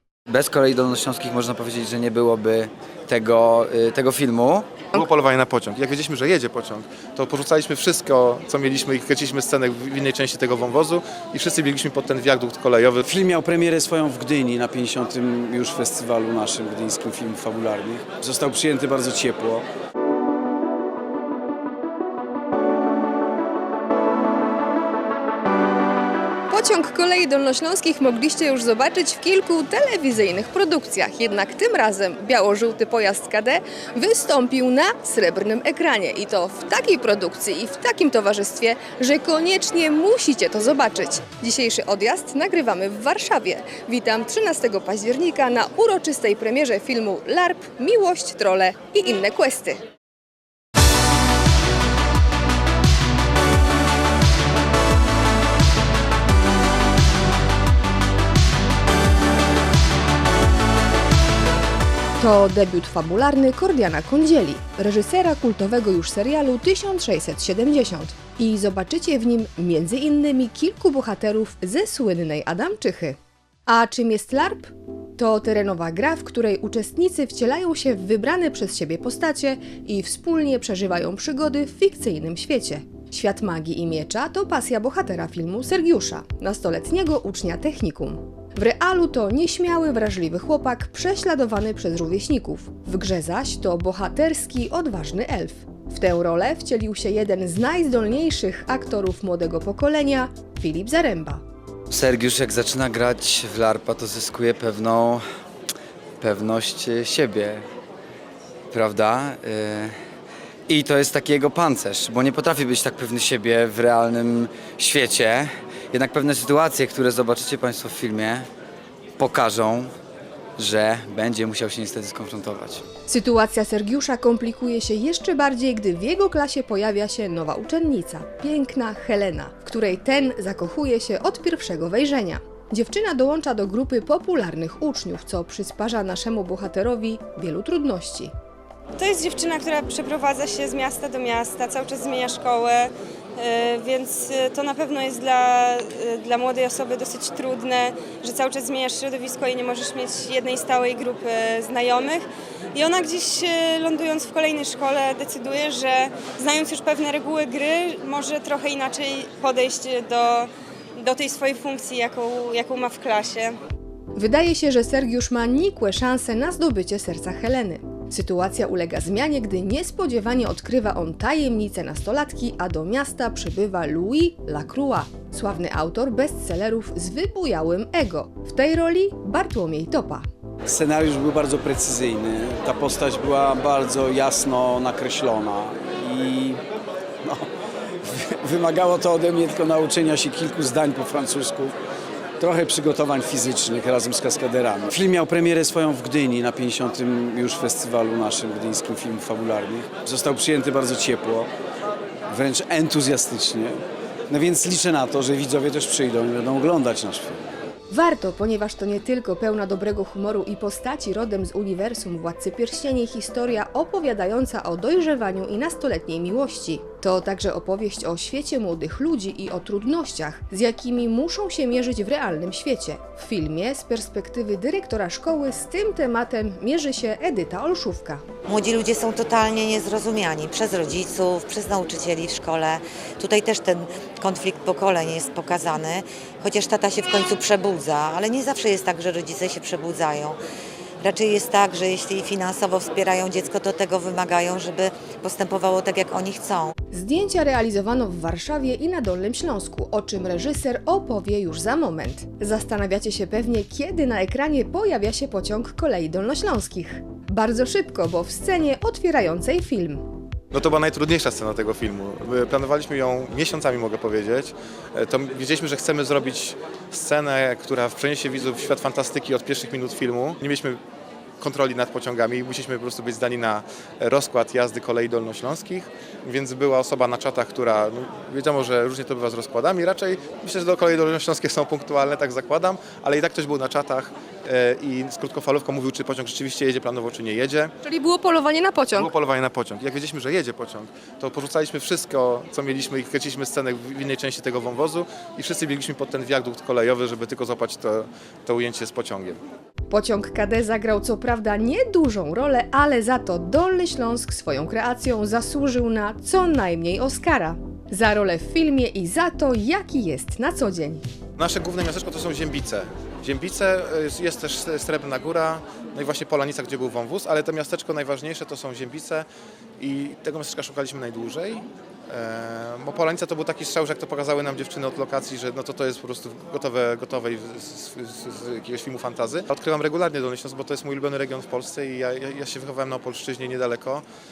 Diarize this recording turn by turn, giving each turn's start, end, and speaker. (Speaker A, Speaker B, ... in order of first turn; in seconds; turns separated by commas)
Speaker A: 0.3-4.7, Speaker B: 4.9-13.1, Speaker C: 13.1-19.6, Speaker D: 26.5-49.8, Speaker D: 62.2-101.4, Speaker A: 101.9-105.2, Speaker A: 106.2-107.6, Speaker A: 108.7-109.9, Speaker A: 110.7-118.5, Speaker A: 119.2-119.9, Speaker A: 120.6-122.8, Speaker D: 123.1-138.3, Speaker E: 139.0-163.5, Speaker D: 164.1-180.2, Speaker C: 180.7-186.6, Speaker C: 187.2-187.5, Speaker C: 188.0-191.7, Speaker C: 192.4-201.5, Speaker C: 202.3-203.8, Speaker C: 204.3-207.5, Speaker D: 207.9-228.2, Speaker F: 228.5-240.4, Speaker F: 241.0-246.7, Speaker D: 246.9-260.0, Speaker B: 260.5-270.8, Speaker B: 271.4-287.7, Speaker D: 287.8-289.1, Speaker B: 288.9-299.4, Speaker D: 299.9-311.0, Speaker B: 311.4-319.2, Speaker B: 319.8-334.0